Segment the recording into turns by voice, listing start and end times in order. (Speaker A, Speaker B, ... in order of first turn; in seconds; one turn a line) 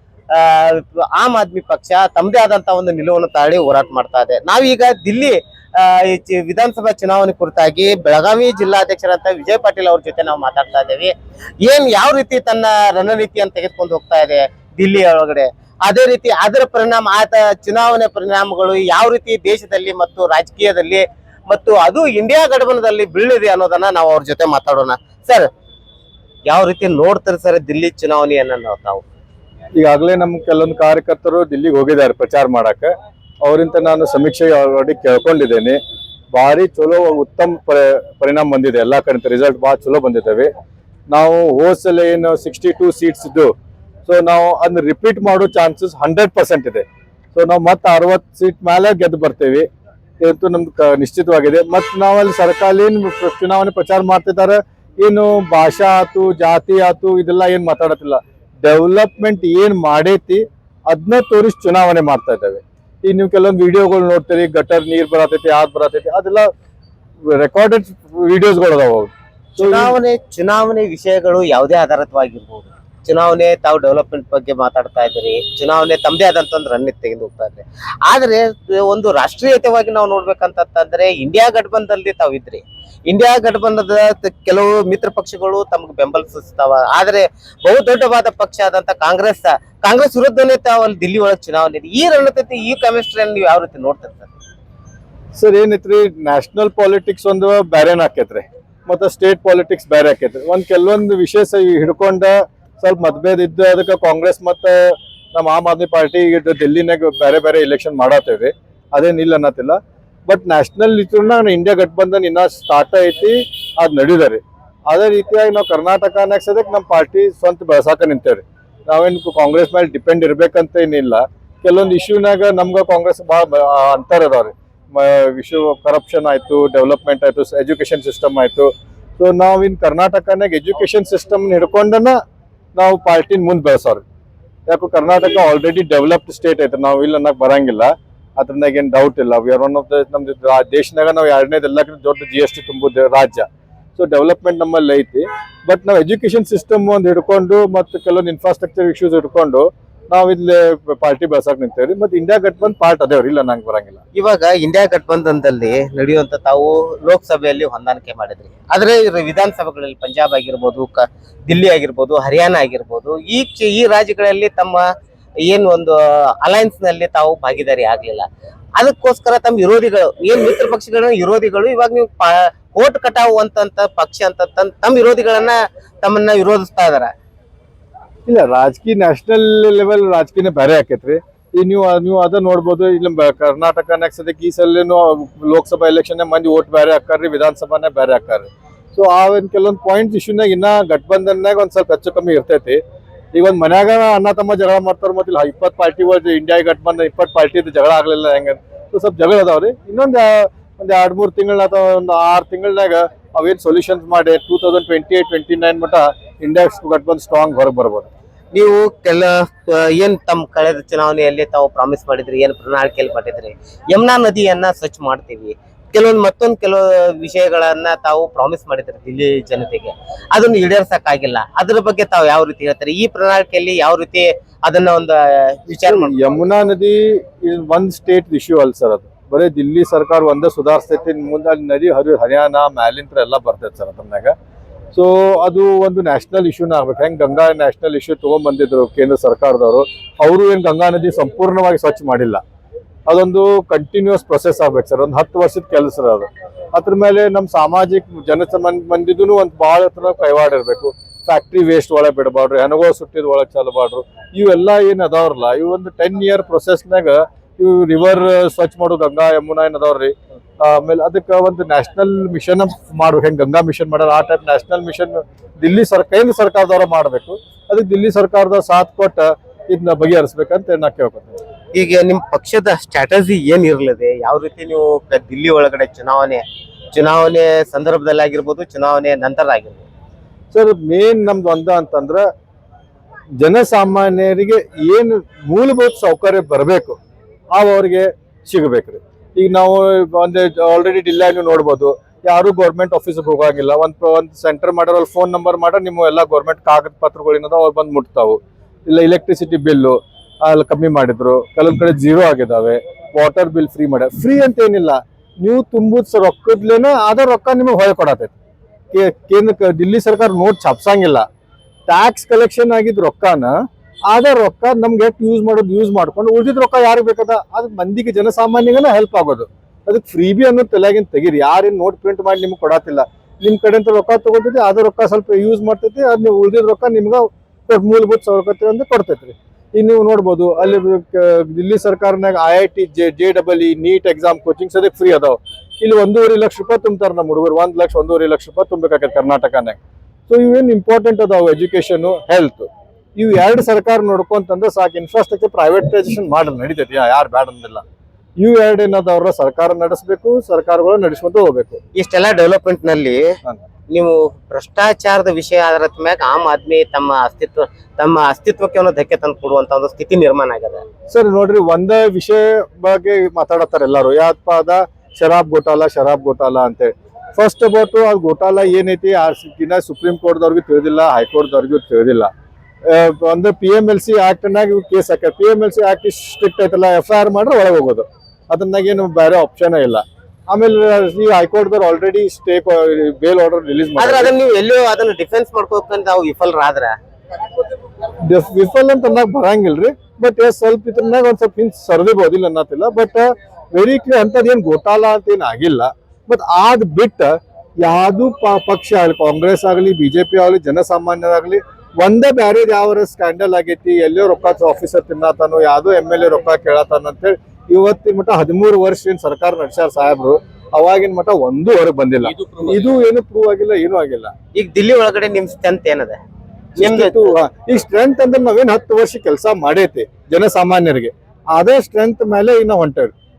Speaker A: 0.3-25.5
Speaker A: 26.5-29.0
Speaker B: 29.8-32.9
Speaker B: 33.4-35.8
Speaker B: 36.3-40.5
Speaker B: 41.1-43.5
Speaker B: 44.0-49.6
Speaker B: 50.2-66.5
Speaker B: 67.2-69.9
Speaker A: 69.5-94.3
Speaker B: 95.3-132.2
Speaker B: 132.7-134.0
Speaker B: 134.7-154.0
Speaker A: 154.1-164.8
Speaker A: 165.4-168.2
Speaker A: 168.8-177.1
Speaker B: 178.2-192.8
Speaker B: 193.3-208.1
Speaker A: 208.5-226.2
Speaker B: 225.7-234.3
Speaker B: 234.9-242.4
Speaker B: 243.1-271.4
Speaker A: 271.7-279.9
Speaker B: 280.5-282.2
Speaker B: 283.4-286.9
Speaker B: 287.5-308.3
Speaker B: 308.9-311.2
Speaker B: 311.9-313.5
Speaker B: 314.1-347.8
Speaker B: 348.4-351.8
Speaker A: 351.9-353.3
Speaker A: 353.9-360.8
Speaker B: 361.1-372.3
Speaker B: 372.8-384.3
Speaker A: 384.0-386.9
Speaker B: 388.2-414.3
Speaker A: 414.5-416.2
Speaker B: 416.8-423.1
Speaker A: 416.8-417.3